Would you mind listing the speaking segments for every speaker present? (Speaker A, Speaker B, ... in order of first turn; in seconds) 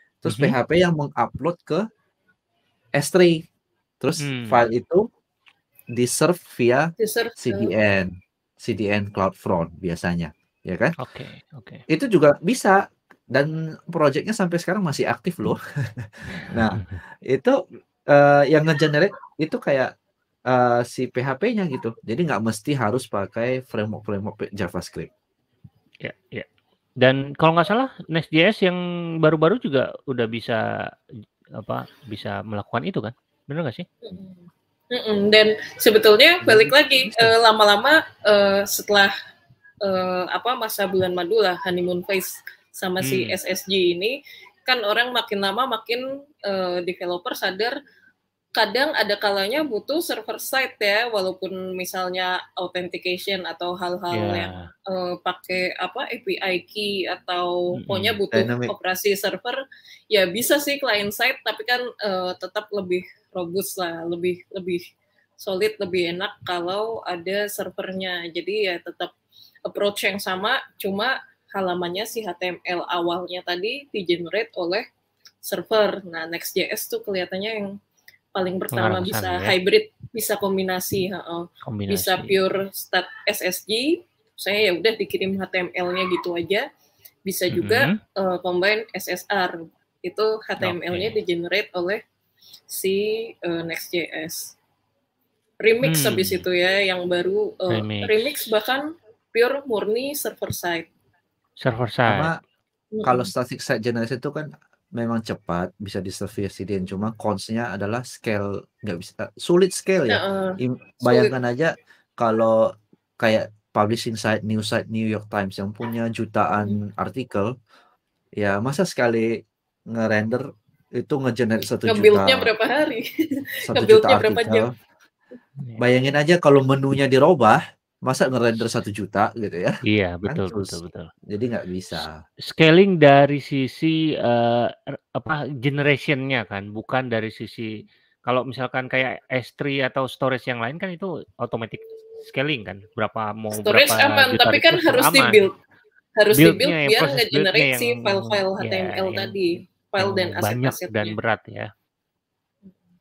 Speaker A: 0.2-1.8, 3.0-3.4, 4.0-5.0, 5.9-10.9, 11.9-12.8, 13.3-17.6, 18.1-19.9, 20.5-25.1, 36.4-36.7, 58.3-58.7, 102.1-102.3, 103.0-112.6, 113.2-117.5, 118.4-119.3, 119.9-120.4, 121.0-122.5, 123.7-124.6, 125.8-129.7, 130.2-132.1
Speaker B: 0.3-0.6, 4.2-4.6, 11.0-11.8, 16.3-17.0, 26.0-26.5, 27.0-30.6, 31.6-33.9, 43.0-43.4, 54.1-54.7, 57.7-58.2, 78.7-79.5, 81.7-82.4, 87.5-88.0, 90.6-91.2, 95.8-96.4, 97.7-98.4, 101.6-102.3, 129.8-131.1, 132.5-145.5, 146.3-149.4, 150.0-151.7
Speaker C: 7.0-7.7, 34.0-39.1, 39.8-47.7, 48.5-59.6, 60.1-64.8, 65.4-69.1, 69.7-74.8, 75.4-77.7, 78.3-86.7, 87.2-92.0, 92.7-94.5, 95.6-100.9, 102.9-103.3, 110.1-111.3, 121.9-124.7, 143.5-145.5, 146.2-151.1